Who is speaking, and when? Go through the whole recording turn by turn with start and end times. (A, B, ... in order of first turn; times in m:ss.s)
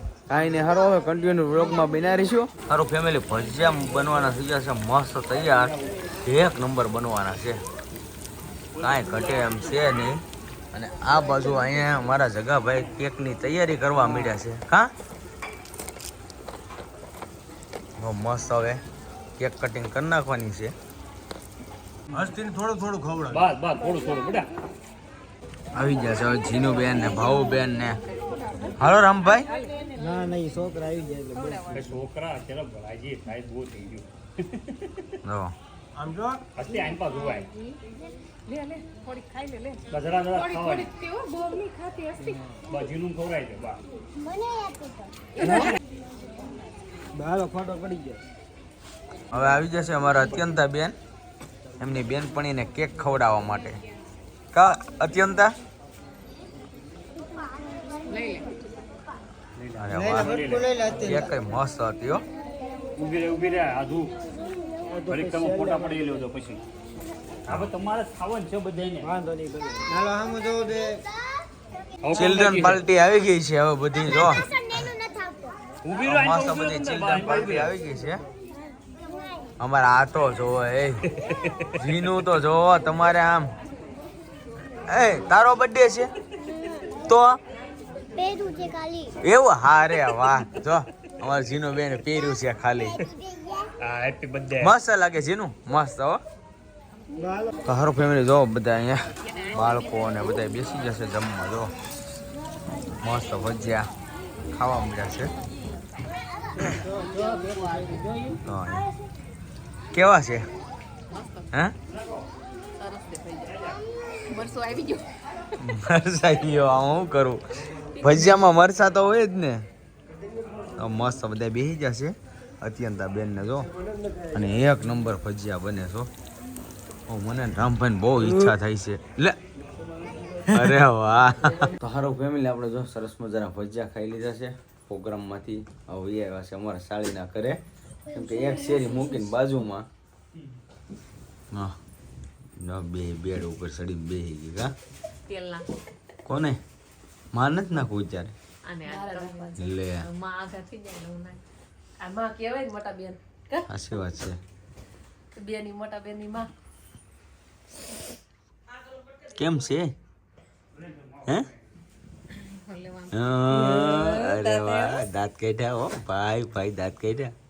0:00.3-0:07.6 A
0:08.8-0:10.2 A
0:10.7-0:14.9 A
0:18.0-0:18.8 A
0:19.4-0:20.7 A
0:22.1-0:23.1 A
0:22.6-0:23.2 B
0:23.3-0:24.5 C
0:25.7-0:28.0 A
0:28.8-0:29.5 A
0:29.8-0:30.1 D
0:30.0-0:31.7 B
0:31.7-0:35.1 C
0:35.2-0:35.5 A
0:36.5-0:37.5 C
0:38.5-0:39.8 D
0:39.9-0:41.0 C
0:40.6-0:42.4 D
0:42.7-0:43.8 C
0:44.2-0:44.9 E
0:45.4-0:45.7 D
0:45.5-0:45.8 C
0:47.2-0:48.2 B
0:49.3-0:51.0 A
0:51.8-0:53.8 A
0:54.5-0:55.5 A
0:58.1-0:58.5 F
0:59.6-1:01.3 C
0:59.8-1:02.2 A
1:03.0-1:04.2 C
1:04.9-1:06.6 C
1:07.5-1:09.2 C
1:09.2-1:10.8 B
1:12.0-1:12.8 C
1:12.1-1:14.4 A
1:14.5-1:15.5 E
1:15.8-1:17.7 C
1:16.0-1:18.2 A
1:19.6-1:21.1 A
1:21.2-1:21.8 C
1:21.8-1:23.5 A
1:24.9-1:26.1 A
1:27.1-1:27.4 A
1:28.2-1:29.1 E
1:29.2-1:33.0 A
1:33.8-1:34.7 C
1:34.6-1:36.2 A
1:37.6-1:41.7 A
1:43.0-1:43.9 A
1:44.5-1:45.3 A
1:46.8-1:48.3 D
1:48.4-1:48.9 A
1:49.9-1:50.5 A
1:51.1-1:51.5 F
1:52.8-1:53.6 F
1:54.3-1:55.0 F
1:55.6-1:57.4 A
1:58.0-1:59.6 A
2:00.8-2:03.7 A
2:04.3-2:06.1 A
2:07.1-2:09.4 A
2:10.5-2:17.6 A
2:18.0-2:19.4 E
2:18.1-2:19.9 A
2:22.6-2:24.7 A
2:25.2-2:25.6 F
2:26.2-2:26.6 A
2:27.3-2:28.3 A
2:28.6-2:31.4 F
2:28.9-2:29.7 D
2:29.6-2:30.0 A
2:32.0-2:33.7 D
2:33.7-2:34.4 A
2:35.4-2:36.5 D
2:39.3-2:39.9 A
2:42.4-2:43.4 F
2:43.1-2:47.3 A
2:43.5-2:45.0 D